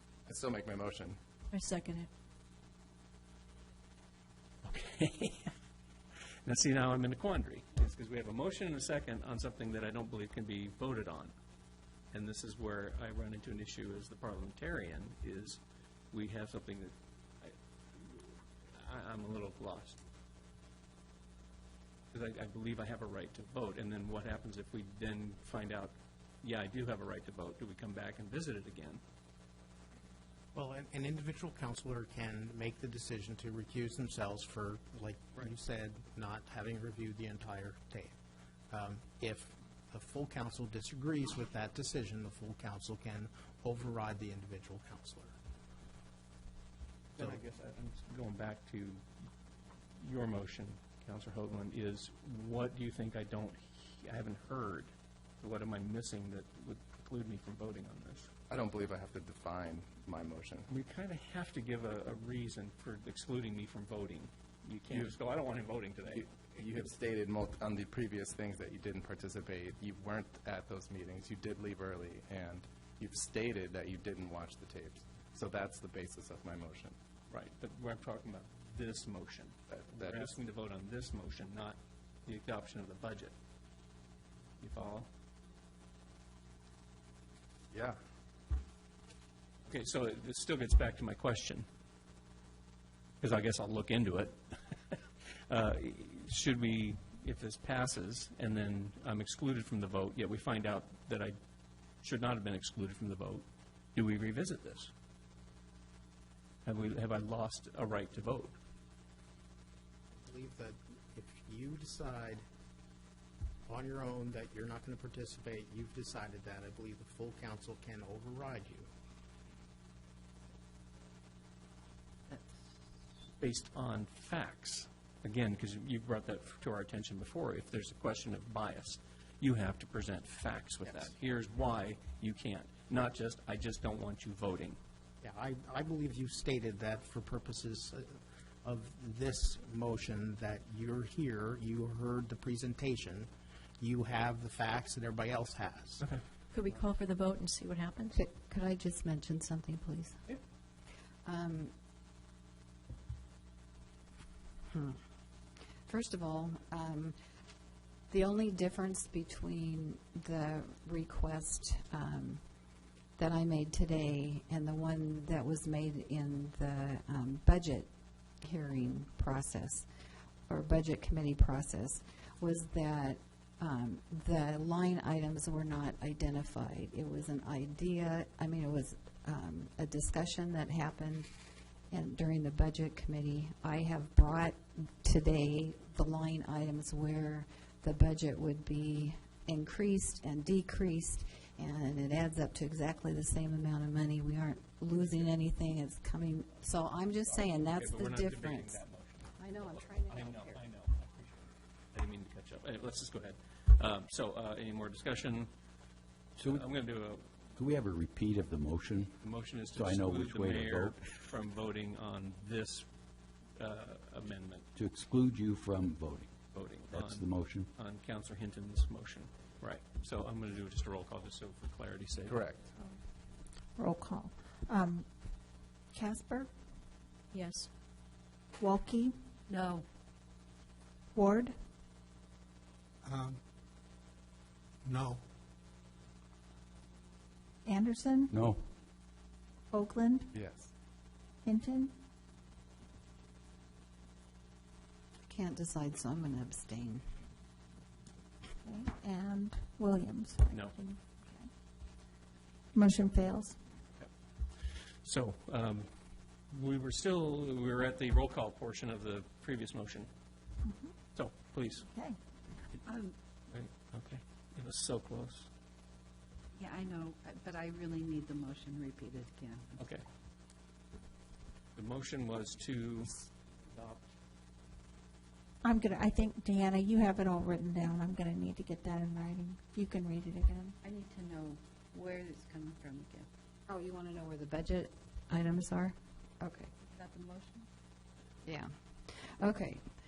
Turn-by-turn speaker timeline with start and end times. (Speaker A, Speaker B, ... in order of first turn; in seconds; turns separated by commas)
Speaker A: 0.3-1.2, Speaker B: 1.5-2.1, Speaker C: 4.6-5.5, Speaker C: 6.5-11.3, Speaker C: 12.1-15.6, Speaker C: 16.1-20.0, Speaker C: 22.1-29.0, Speaker D: 30.6-38.2, Speaker D: 38.7-45.4, Speaker C: 47.2-49.0, Speaker C: 50.0-58.3, Speaker A: 58.5-60.7, Speaker C: 60.7-66.5, Speaker A: 66.2-77.0, Speaker C: 77.3-83.3, Speaker A: 80.0-80.3, Speaker C: 84.6-85.1, Speaker A: 87.7-88.0, Speaker C: 89.7-91.7, Speaker C: 93.2-95.0, Speaker C: 95.5-101.4, Speaker C: 102.0-104.9, Speaker C: 106.7-108.6, Speaker D: 110.2-112.4, Speaker D: 113.7-118.9, Speaker C: 123.4-134.8, Speaker D: 135.2-143.3, Speaker D: 143.8-146.1, Speaker B: 146.5-148.2, Speaker E: 148.2-150.2, Speaker E: 151.2-151.7, Speaker E: 154.7-155.0, Speaker E: 155.9-157.2, Speaker E: 158.1-162.4, Speaker E: 163.2-167.9, Speaker E: 168.4-169.9, Speaker E: 170.5-181.3, Speaker E: 181.9-198.8, Speaker C: 195.0-195.3, Speaker C: 197.2-205.5, Speaker E: 199.4-200.6, Speaker F: 206.4-211.1, Speaker C: 206.4-207.2, Speaker C: 209.2-212.9, Speaker C: 213.6-214.7, Speaker F: 214.8-217.7, Speaker C: 216.5-222.5, Speaker A: 222.3-222.7, Speaker G: 223.8-225.1, Speaker G: 225.9-226.5, Speaker B: 227.3-227.7, Speaker G: 228.6-229.2, Speaker G: 231.2-231.6, Speaker D: 233.0-233.4, Speaker D: 234.8-235.2, Speaker G: 237.7-238.3, Speaker F: 238.3-238.6, Speaker G: 239.7-240.3, Speaker A: 240.3-240.7, Speaker G: 241.4-241.9, Speaker E: 245.3-247.0, Speaker G: 248.6-251.5, Speaker G: 252.7-253.6, Speaker C: 255.0-255.9, Speaker C: 256.5-260.1, Speaker G: 260.7-260.9, Speaker C: 261.1-261.9, Speaker G: 261.9-262.2, Speaker C: 263.5-265.5, Speaker H: 266.6-269.6, Speaker C: 269.8-270.1, Speaker C: 271.8-274.1, Speaker G: 275.6-280.8, Speaker H: 282.6-282.9, Speaker E: 283.7-286.7, Speaker E: 288.4-289.9